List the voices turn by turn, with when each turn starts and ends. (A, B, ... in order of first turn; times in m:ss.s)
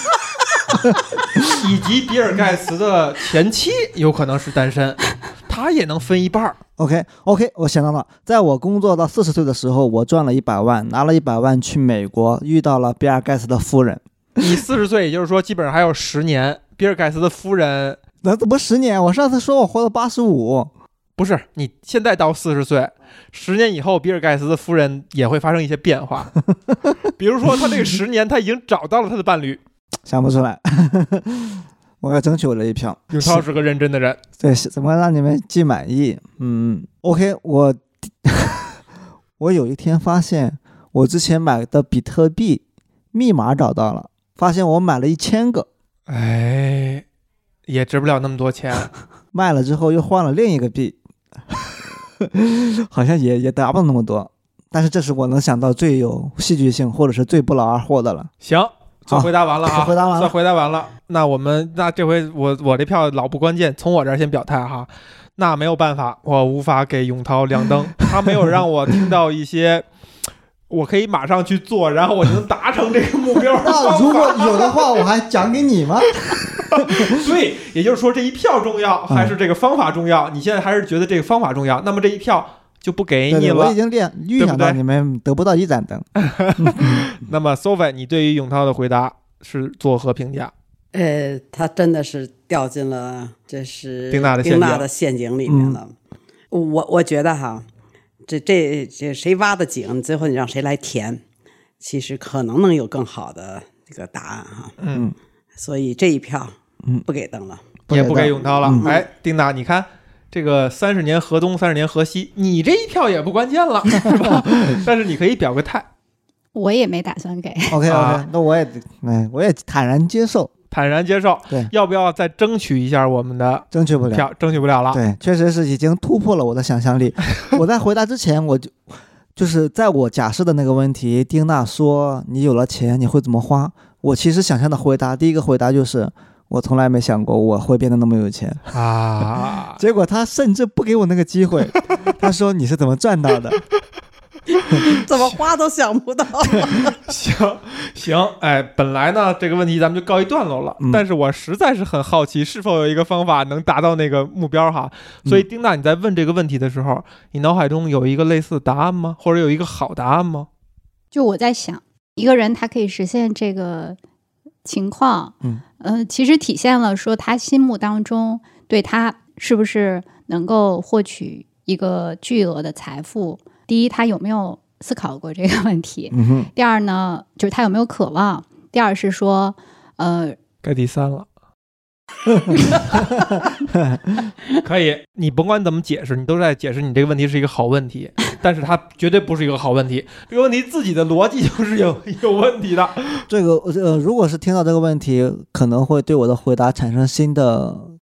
0:00.9-0:01.5 A
0:01.5-0:06.6 B
0:06.8-0:14.6 A
0:14.4-0:18.0 B
0:18.2-0:20.7 A
0:21.2-0:26.3 B
0:27.2-0:29.6 B
0:30.1-0:33.4 A
0:33.1-0:34.2 B
0:34.4-0:38.8 A
0:39.4-0:45.7 A
0:46.1-0:47.0 B
0:47.7-0:48.9 B
0:49.3-0:51.0 A
0:51.5-0:58.3 A
0:58.4-1:09.9 B
0:59.1-1:00.4 A
1:10.7-1:14.9 B
1:13.6-1:17.1 A
1:16.7-1:23.8 B
1:19.1-1:19.3 A
1:23.3-1:27.1 A
1:24.4-1:24.8 B
1:26.2-1:30.5 B
1:30.9-1:35.9 C
1:34.1-1:34.9 B
1:35.5-1:35.8 A
1:36.5-1:37.6 C
1:38.3-1:41.2 C
1:41.8-1:44.7 C
1:44.8-1:45.1 B
1:45.6-1:46.6 C
1:47.1-1:47.6 C
1:47.9-1:48.9 A
1:47.9-1:55.9 B
1:48.6-1:49.0 C
1:56.6-1:57.8 D
1:57.7-2:00.5 A
1:57.9-1:58.2 B
2:00.7-2:05.0 B
2:03.7-2:04.3 A
2:04.9-2:08.8 A
2:09.4-2:18.7 A
2:18.7-2:19.8 B
2:19.8-2:23.6 A
2:24.9-2:26.9 C
2:27.1-2:40.5 B
2:41.1-2:44.0 D
2:44.6-3:00.4 D
2:56.1-2:56.5 A
3:00.6-3:01.3 B
3:02.4-3:04.0 A
3:04.6-3:13.3 B
3:13.3-3:18.0 A